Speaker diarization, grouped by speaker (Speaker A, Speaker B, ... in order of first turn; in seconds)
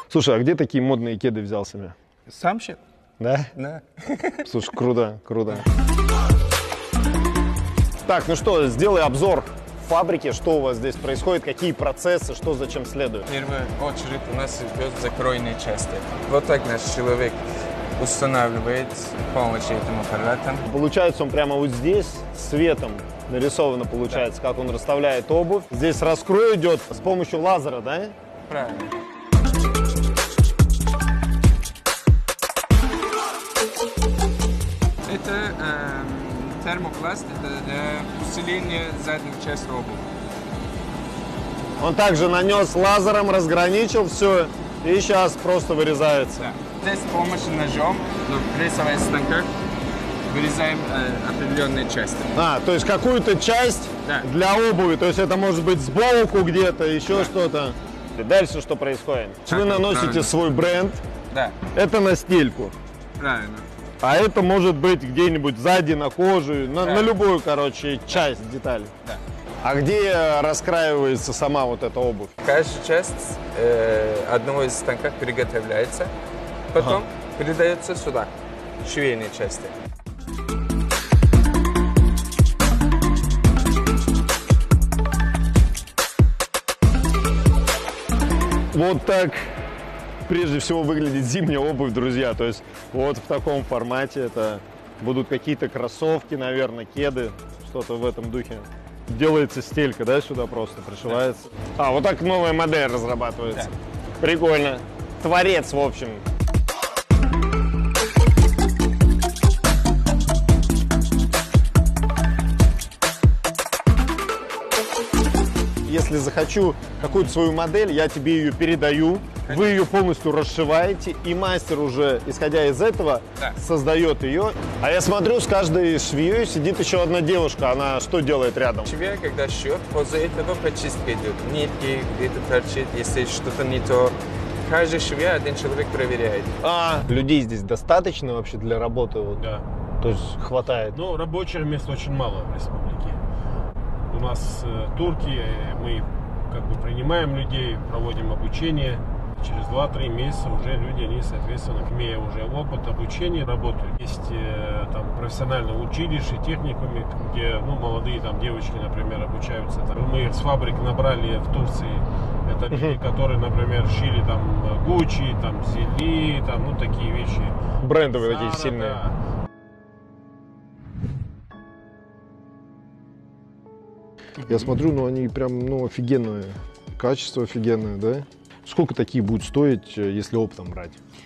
Speaker A: 0.1-1.9, 3.2-3.5, 4.4-5.7, 8.0-13.2, 20.7-28.1, 41.8-46.5, 52.3-61.0, 61.7-62.8, 64.0-68.9, 69.6-72.3, 88.7-89.5, 90.3-106.2, 115.8-128.9, 136.6-139.4, 140.0-141.0, 162.7-163.0, 167.8-169.0, 174.4-181.0
Speaker B: 2.3-2.8, 3.5-4.5, 13.2-17.4, 18.0-20.7, 28.5-28.9, 35.0-40.0, 46.4-49.5, 50.3-52.3, 59.5-60.3, 61.3-61.6, 63.2-63.7, 66.8-67.1, 72.4-76.1, 76.7-79.8, 119.5-119.8, 128.8-136.6
Speaker C: 139.4-139.6, 140.9-143.2, 144.1-167.6, 168.1-169.1